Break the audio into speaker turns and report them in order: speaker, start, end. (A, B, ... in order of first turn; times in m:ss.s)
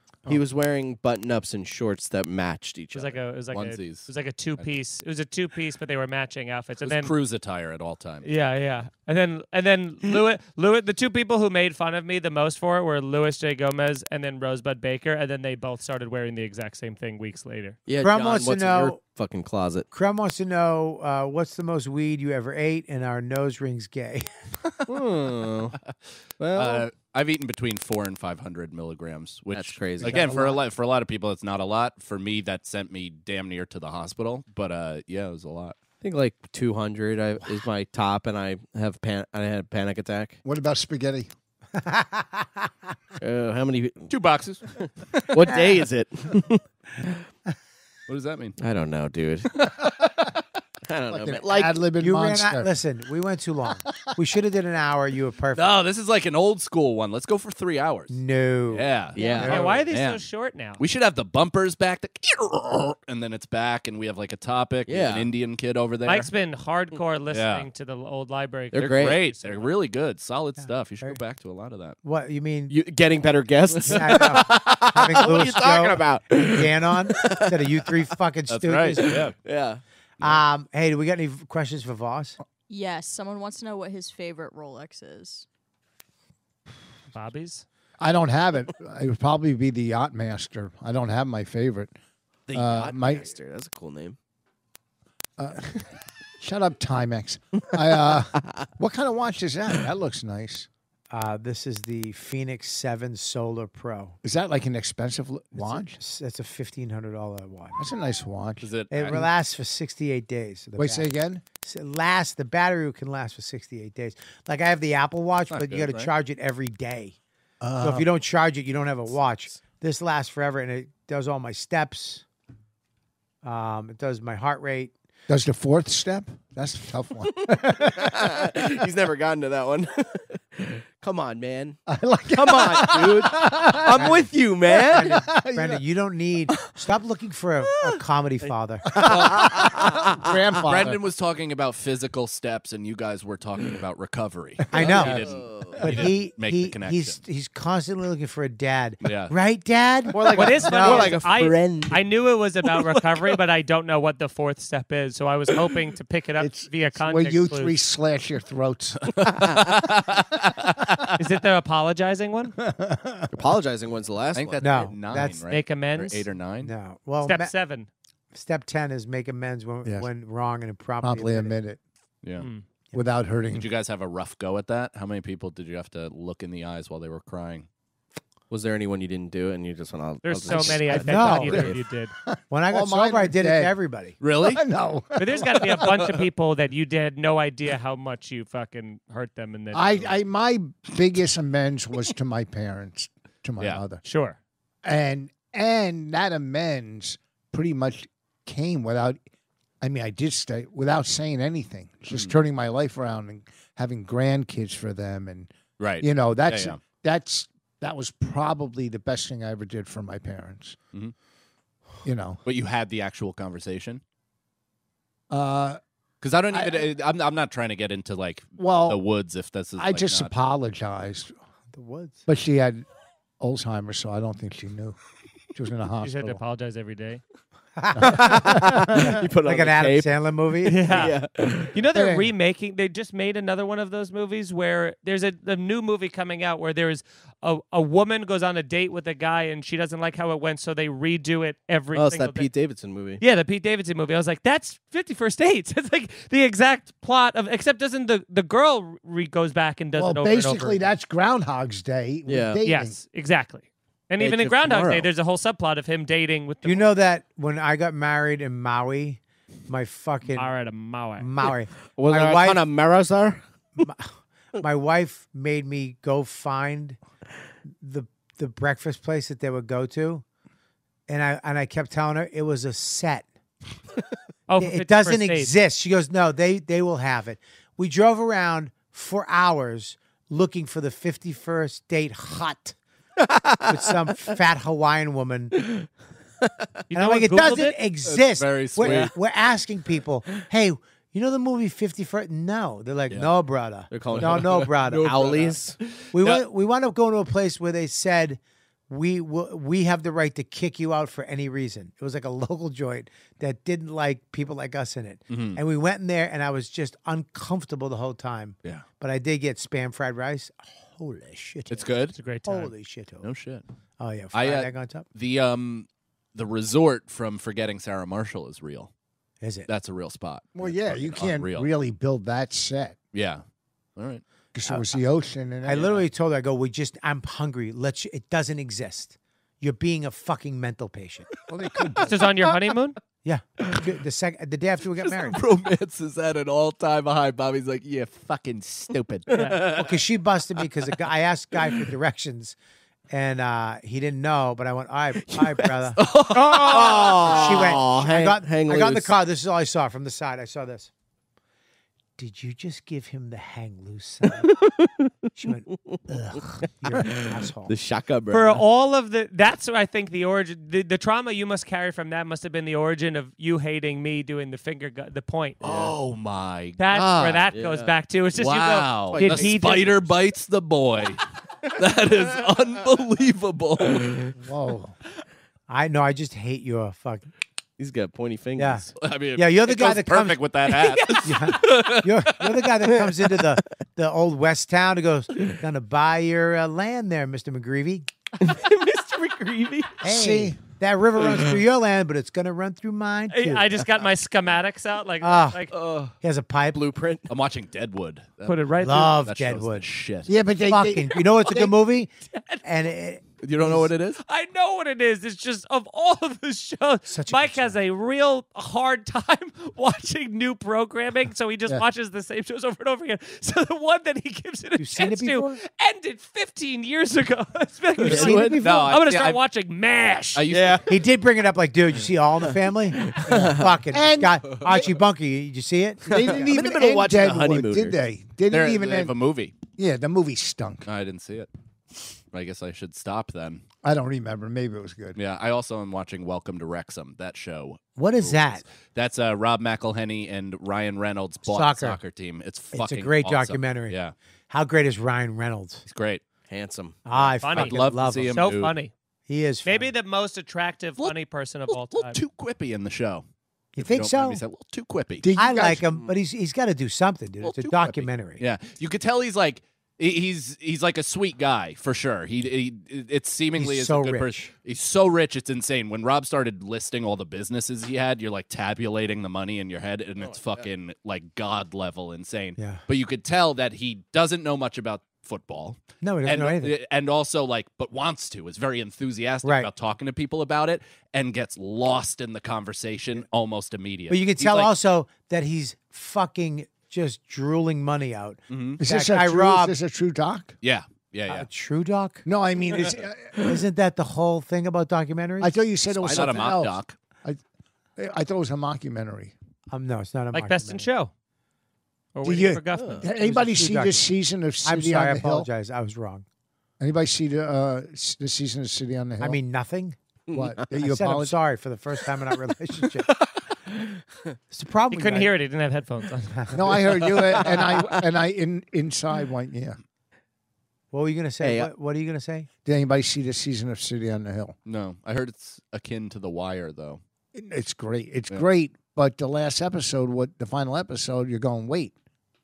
0:00.3-0:03.2 A
0:02.9-0:07.1 B
0:03.5-0:04.7 C
0:06.8-0:08.3 C
0:08.2-0:17.8 B
0:17.9-0:19.9 A
0:18.0-0:19.0 D
0:19.9-0:24.3 D
0:24.9-0:25.8 A
0:26.4-0:26.9 A
0:26.5-0:35.8 C
0:29.5-0:30.6 A
0:36.0-0:40.4 A
0:40.4-0:41.3 E
0:41.8-0:42.7 D
0:43.2-0:44.1 A
0:44.1-0:45.5 C
0:45.3-0:47.2 A
0:48.1-0:48.6 C
0:48.6-0:49.6 A
0:49.6-0:50.4 C
0:50.8-0:51.8 A
0:51.1-0:52.7 E
0:52.0-0:55.7 D
0:55.5-0:58.1 C
0:58.1-0:59.8 D
0:58.7-1:00.2 C
0:59.1-0:59.7 A
0:59.2-1:00.8 B
1:00.8-1:06.3 C
1:04.9-1:05.3 A
1:06.0-1:09.7 B
1:07.3-1:07.7 C
1:08.7-1:09.2 A
1:08.8-1:12.0 C
1:12.0-1:12.8 D
1:12.7-1:17.6 A
1:13.8-1:19.2 D
1:18.5-1:19.3 C
1:19.1-1:19.8 A
1:20.2-1:22.4 D
1:22.7-1:25.4 F
1:27.1-1:27.6 B
1:28.0-1:31.9 E
1:32.5-1:34.2 A
1:32.5-1:33.3 E
1:35.4-1:35.9 E
1:36.4-1:40.7 E
1:37.8-1:38.6 A
1:41.1-1:44.2 D
1:44.2-1:46.0 E
1:45.5-1:47.8 D
1:47.8-1:49.3 E
1:48.6-1:49.2 C
1:48.9-1:57.2 D
1:50.8-1:51.4 E
1:55.5-1:56.1 C
1:57.6-1:58.1 E
1:57.8-2:02.2 D
1:59.1-1:59.6 A
2:03.4-2:04.9 D
2:05.3-2:08.5 E
2:07.4-2:11.8 A
2:11.9-2:14.2 E
2:12.3-2:15.2 A
2:13.9-2:14.3 D
2:14.9-2:15.8 E
2:14.9-2:18.8 D
2:18.9-2:20.6 A
2:19.0-2:21.0 E
2:19.0-2:19.6 C
2:20.6-2:27.2 C
2:24.7-2:31.2 D
2:24.8-2:25.8 A
2:24.8-2:25.2 E
2:29.0-2:29.3 C
2:30.1-2:32.0 A
2:30.3-2:37.8 B
2:32.7-2:33.3 A
2:36.4-2:39.1 E
2:39.0-2:41.2 C
2:41.2-2:42.5 B
2:42.6-2:43.3 E
2:43.3-2:44.6 A
2:44.3-2:46.7 C
2:44.6-2:45.4 D
2:45.5-2:46.3 B
2:46.6-2:47.5 D
2:47.2-2:47.9 B
2:48.3-2:51.6 D
2:51.0-2:51.8 E
2:52.4-2:52.6 B
2:52.9-2:53.7 E
2:53.5-2:57.7 C
2:58.5-3:01.8 A
3:00.2-3:02.1 B
3:00.9-3:01.7 D
3:02.2-3:03.7 E
3:02.5-3:04.1 D
3:04.2-3:04.6 C
3:04.4-3:06.0 E
3:05.2-3:10.1 B
3:09.7-3:14.0 E
3:14.0-3:14.4 B
3:14.8-3:19.2 E
3:19.8-3:25.5 E
3:22.1-3:22.4 C
3:25.8-3:26.8 C
3:26.0-3:30.8 E
3:32.0-3:32.4 E
3:32.4-3:34.0 C
3:35.3-3:35.8 E
3:36.2-3:40.3 C
3:36.5-3:36.8 E
3:38.6-3:39.0 E
3:39.8-3:41.3 E
3:41.7-3:42.2 D
3:42.3-3:42.8 E
3:43.4-3:45.0 E
3:45.5-3:46.4 E
3:46.0-3:47.2 B
3:47.8-3:51.1 D
3:48.0-3:49.2 E
3:48.0-3:50.1 A
3:50.7-3:51.2 B
3:50.8-3:51.8 A
3:51.7-4:02.5 B
3:51.9-3:52.3 E
4:01.9-4:03.2 A
4:03.2-4:10.9 B
4:10.0-4:13.0 E
4:12.3-4:12.6 A
4:12.6-4:16.8 B
4:14.2-4:15.1 A
4:16.6-4:20.5 D
4:20.3-4:21.3 B
4:21.2-4:22.6 D
4:22.0-4:23.4 A
4:23.8-4:27.0 D
4:27.8-4:30.2 D
4:31.1-4:33.2 D
4:34.5-4:35.5 B
4:34.6-4:42.8 D
4:43.2-4:43.7 A
4:43.6-4:45.6 D
4:45.6-4:45.9 A
4:46.9-4:47.8 B
4:46.9-4:55.6 D
4:48.0-4:49.1 C
4:48.8-4:49.1 A
4:53.9-4:55.8 A
4:55.0-4:55.5 C
4:56.1-5:11.9 D
4:56.2-4:56.4 C
5:05.3-5:05.6 C
5:11.7-5:12.2 C
5:12.1-5:12.7 B
5:12.4-5:13.3 D
5:13.2-5:13.6 C
5:14.0-5:15.0 D
5:14.3-5:18.9 C
5:19.4-5:19.7 D
5:19.7-5:21.7 C
5:20.5-5:23.0 E
5:23.1-5:23.4 C
5:24.0-5:24.2 C
5:24.5-5:26.0 E
5:24.6-5:25.0 D
5:25.6-5:31.2 D
5:31.5-5:32.2 E
5:32.0-5:33.0 B
5:33.2-5:35.4 D
5:35.0-5:39.6 C
5:39.3-5:39.9 A
5:39.3-5:39.6 B
5:39.7-5:42.6 D
5:43.1-5:50.9 D
5:45.3-5:49.1 A
5:46.0-5:47.7 C
5:52.2-5:54.5 D
5:54.3-5:55.1 A
5:55.4-5:57.7 D
5:56.9-5:58.6 A
5:58.3-6:05.6 B
6:05.6-6:07.5 C
6:05.6-6:05.9 A
6:06.8-6:09.9 B
6:07.5-6:07.9 A
6:08.4-6:11.2 C
6:09.1-6:10.0 A
6:11.7-6:14.3 C
6:14.4-6:14.9 E
6:15.7-6:17.3 D
6:17.8-6:18.9 A
6:18.6-6:18.8 D
6:19.0-6:22.2 C
6:19.4-6:20.4 D
6:21.2-6:28.1 D
6:28.4-6:30.0 A
6:30.0-6:33.8 D
6:30.0-6:30.6 E
6:31.2-6:31.6 A
6:33.3-6:35.7 B
6:35.2-6:35.6 D
6:35.7-6:36.1 A
6:36.2-6:36.8 D
6:36.7-6:37.3 A
6:37.3-6:40.3 C
6:38.5-6:39.1 B
6:38.8-6:39.9 D
6:40.2-6:41.7 E
6:40.6-6:42.1 D
6:42.3-6:42.6 B
6:42.6-6:43.9 D
6:43.4-6:44.2 C
6:44.2-7:00.5 B
6:47.1-6:47.7 D
6:54.8-6:55.6 D
6:58.0-6:58.6 A
6:58.0-6:59.0 D
6:58.6-6:59.4 C
7:00.3-7:00.8 C
7:00.5-7:00.9 A
7:00.9-7:06.5 D
7:03.0-7:03.7 A
7:03.9-7:04.5 E
7:06.1-7:10.9 E
7:06.1-7:08.0 A
7:08.5-7:09.6 C
7:10.8-7:11.5 C
7:12.3-7:13.6 C
7:13.8-7:15.2 E
7:15.2-7:24.1 C
7:18.0-7:18.6 D
7:21.4-7:22.0 D
7:22.7-7:24.0 D
7:24.5-7:25.8 D
7:25.8-7:26.2 C
7:26.5-7:27.0 A
7:27.0-7:28.4 D
7:27.1-7:28.7 C
7:27.4-7:27.8 B
7:28.3-7:28.9 B
7:29.3-7:29.9 D
7:29.6-7:32.2 B
7:31.7-7:33.2 C
7:33.7-7:34.4 D
7:33.8-7:35.3 C
7:35.2-7:35.8 E
7:35.4-7:38.4 D
7:37.4-8:04.7 C
7:43.6-7:44.5 D
7:50.2-7:50.6 A
7:52.6-7:52.8 D
7:56.0-7:56.8 D
7:59.4-7:59.7 D
8:04.1-8:09.8 D
8:08.5-8:08.8 C
8:08.8-8:10.5 E
8:10.6-8:11.5 C
8:11.3-8:12.2 D
8:12.2-8:13.4 E
8:13.4-8:15.6 D
8:15.4-8:17.4 E
8:15.9-8:16.5 A
8:16.0-8:17.0 C
8:18.0-8:19.3 E
8:19.7-8:20.9 D
8:20.3-8:21.1 B
8:22.1-8:23.0 B
8:22.2-8:25.5 E
8:22.7-8:23.0 A
8:23.2-8:24.1 D
8:24.6-8:26.2 D
8:26.8-8:29.4 E
8:29.2-8:30.0 D
8:30.3-8:30.7 A
8:30.3-8:31.3 E
8:30.8-8:33.1 D
8:33.7-8:34.0 A
8:34.5-8:35.3 D
8:34.9-8:36.8 B
8:36.5-8:39.8 E
8:37.0-8:38.0 A
8:40.9-8:42.5 D
8:41.4-8:41.7 A
8:42.6-8:44.6 E
8:44.6-8:47.0 C
8:47.3-8:51.9 E